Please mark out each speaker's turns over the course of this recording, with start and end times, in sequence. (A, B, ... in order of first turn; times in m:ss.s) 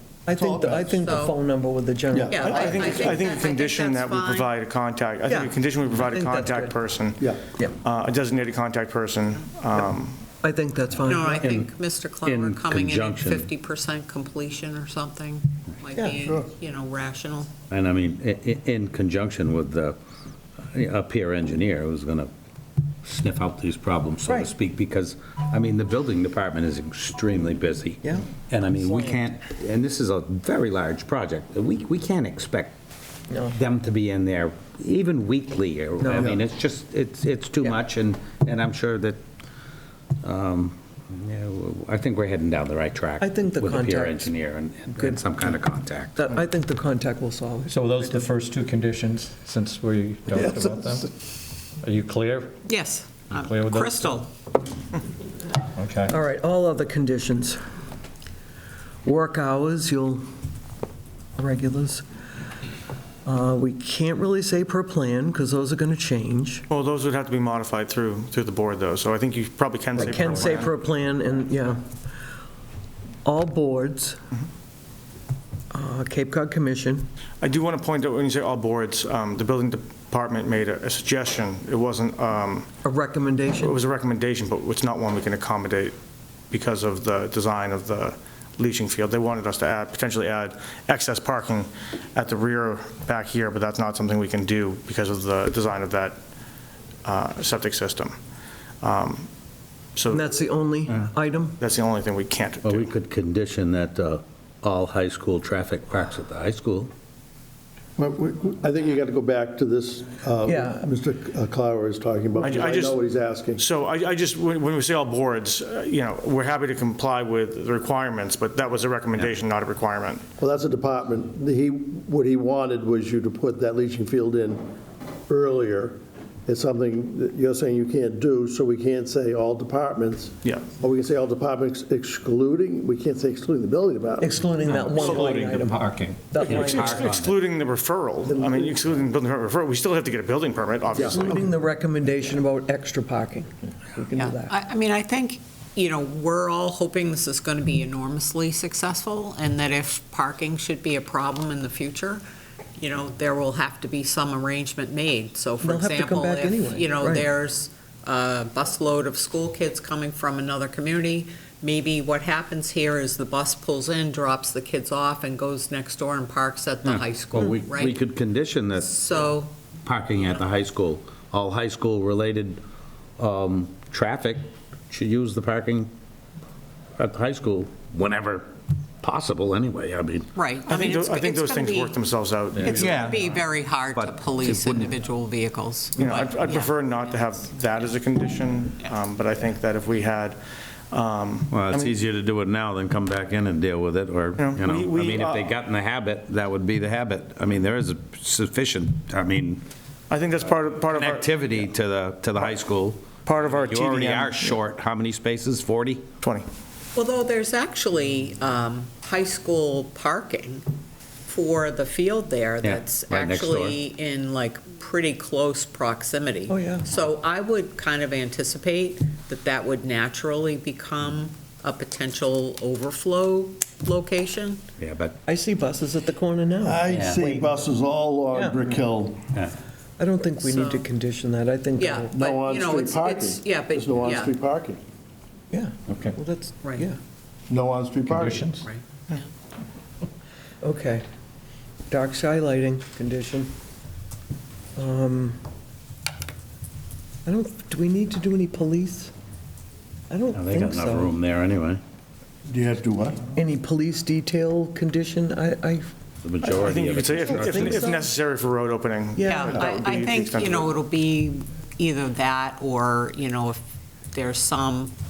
0:00.2-0:03.2 A
0:00.3-0:01.0 B
0:00.9-0:01.3 C
0:02.1-0:02.4 B
0:02.3-0:04.5 C
0:02.4-0:10.2 D
0:05.3-0:06.7 A
0:10.4-0:11.5 A
0:11.0-0:13.5 E
0:11.1-0:17.5 C
0:17.7-0:20.0 E
0:20.7-0:22.3 E
0:23.0-0:32.8 E
0:28.0-0:28.3 A
0:33.3-0:33.6 A
0:33.5-0:39.2 E
0:36.0-0:36.4 A
0:40.2-0:46.3 E
0:43.2-0:44.3 A
0:44.9-0:45.4 A
0:46.2-0:48.2 A
0:47.7-0:51.1 F
0:51.8-0:52.6 F
0:52.6-0:54.3 C
0:53.3-0:54.2 F
0:55.8-0:56.1 F
0:56.1-0:57.6 A
0:59.0-1:00.2 A
1:01.4-1:02.0 A
1:03.2-1:06.6 A
1:06.7-1:10.7 D
1:10.0-1:11.9 A
1:13.2-1:14.2 A
1:15.7-1:17.1 A
1:17.4-1:22.7 D
1:22.8-1:23.8 A
1:23.5-1:26.0 D
1:26.5-1:36.2 D
1:37.0-1:38.2 D
1:38.8-1:39.3 D
1:40.0-1:40.2 D
1:40.1-1:41.6 A
1:41.6-1:42.9 D
1:42.6-1:46.9 E
1:48.0-1:53.6 B
1:50.4-1:50.9 A
1:52.5-1:53.0 D
1:53.6-2:00.3 D
2:00.4-2:04.6 B
2:05.3-2:14.3 B
2:10.4-2:10.7 D
2:14.2-2:17.1 A
2:14.7-2:16.4 F
2:15.0-2:15.5 D
2:16.4-2:17.4 E
2:16.5-2:21.4 D
2:18.3-2:19.0 B
2:21.0-2:21.4 B
2:21.0-2:24.5 A
2:24.2-2:32.2 C
2:32.8-2:48.0 C
2:35.6-2:37.3 A
2:46.8-2:49.0 E
2:48.7-2:49.5 C
2:49.8-2:52.6 E
2:53.2-2:55.9 E
2:57.0-2:58.5 E
2:59.0-3:00.3 E
3:00.3-3:02.0 C
3:00.6-3:03.1 D
3:02.5-3:03.3 E
3:02.6-3:07.9 C
3:03.9-3:04.9 E
3:06.0-3:12.0 D
3:11.5-3:19.6 E
3:14.4-3:15.5 D
3:20.1-3:21.7 D
3:20.9-3:26.0 E
3:23.2-3:24.6 D
3:26.2-3:26.5 D
3:26.9-3:30.6 C
3:31.2-3:44.6 C
3:32.6-3:33.8 E
3:36.5-3:36.9 A
3:44.8-3:45.2 E
3:45.2-3:47.7 A
3:46.6-3:49.2 B
3:46.9-3:47.2 E
3:48.3-3:48.6 A
3:50.0-3:52.1 A
3:50.4-3:50.8 C
3:51.8-3:54.4 C
3:52.1-3:54.8 B
3:55.5-3:57.0 A
3:55.9-3:56.1 F
3:57.5-3:58.4 B
3:58.0-3:58.6 F
3:58.6-3:59.2 C
4:00.6-4:01.0 A
4:01.9-4:03.5 A
4:04.8-4:05.4 A
4:07.2-4:09.1 A
4:10.1-4:11.1 A
4:10.3-4:11.8 E
4:12.4-4:13.3 B
4:13.3-4:15.9 A
4:16.2-4:17.8 E
4:16.6-4:20.8 D
4:17.3-4:18.1 A
4:19.2-4:20.0 A
4:19.2-4:24.9 C